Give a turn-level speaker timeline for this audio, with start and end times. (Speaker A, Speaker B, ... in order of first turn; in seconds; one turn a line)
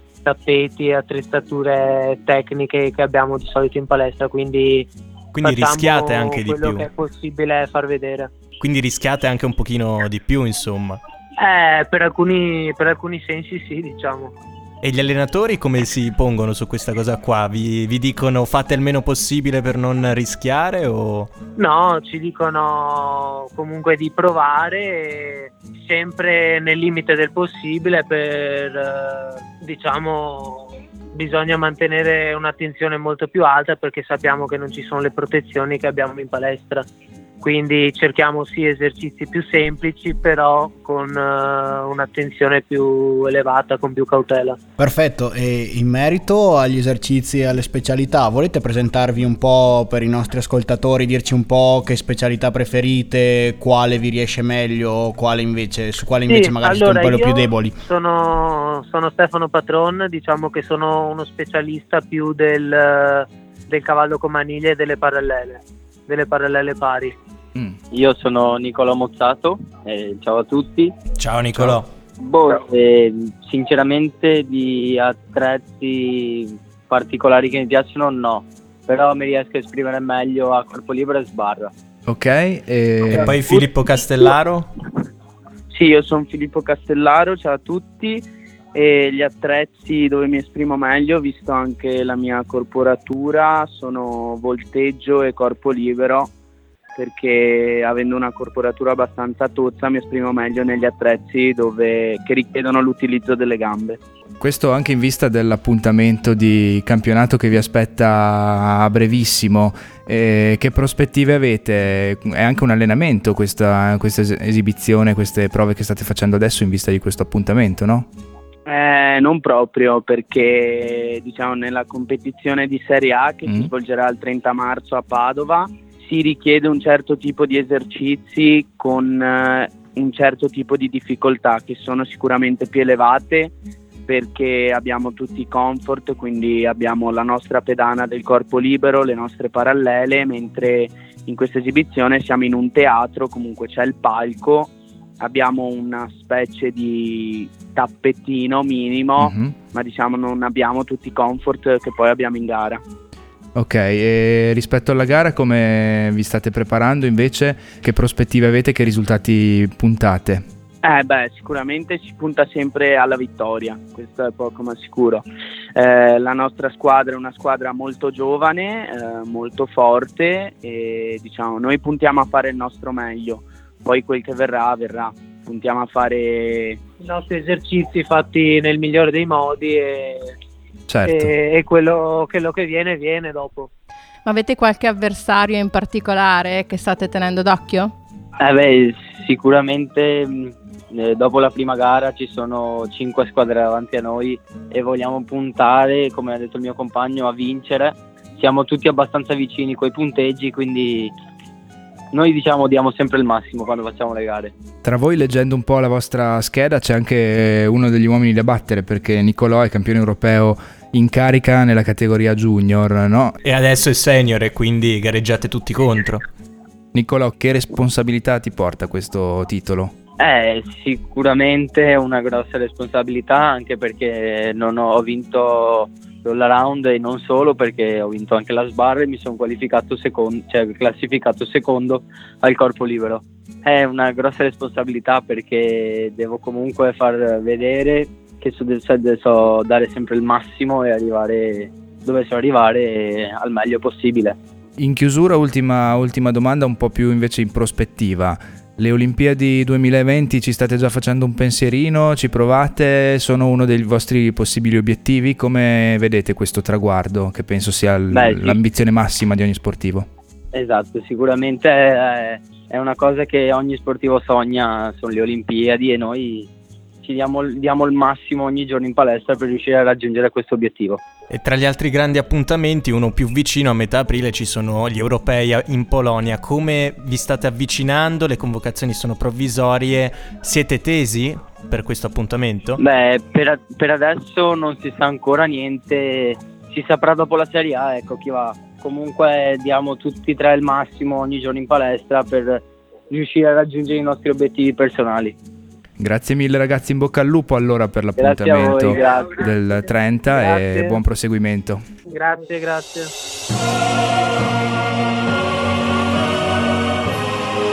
Speaker A: 0.2-4.9
Speaker B: 5.3-6.9
Speaker A: 5.4-8.3
Speaker B: 8.6-11.0
Speaker A: 11.4-14.3
Speaker B: 14.8-21.3
Speaker A: 21.6-36.9
Speaker A: 37.4-44.6
Speaker C: 44.8-57.8
Speaker A: 56.3-67.2
Speaker D: 67.9-70.9
Speaker B: 71.2-71.9
Speaker D: 72.2-81.7
Speaker E: 82.1-83.4
Speaker B: 83.1-84.7
Speaker F: 85.7-96.3
Speaker F: 97.0-104.0
Speaker E: 104.4-118.1
Speaker F: 118.7-133.6
Speaker F: 134.1-152.8
Speaker E: 149.2-149.6
Speaker E: 153.6-160.5
Speaker F: 160.8-165.2
Speaker F: 165.8-176.8
Speaker A: 177.0-180.3
Speaker E: 180.9-181.3
Speaker A: 181.1-183.7
Speaker G: 184.3-187.9
Speaker D: 188.4-201.1
Speaker D: 202.1-204.5
Speaker E: 204.8-213.4
Speaker B: 213.4-216.2
Speaker E: 216.9-219.9
Speaker D: 220.2-244.4
Speaker E: 244.8-260.1
Speaker D: 258.1-258.6
Speaker D: 260.5-266.5
Speaker D: 267.0-271.0
Speaker B: 271.3-282.8
Speaker D: 282.8-295.4
Speaker E: 296.0-301.8
Speaker D: 298.2-299.4
Speaker A: 300.3-301.0
Speaker A: 302.1-303.1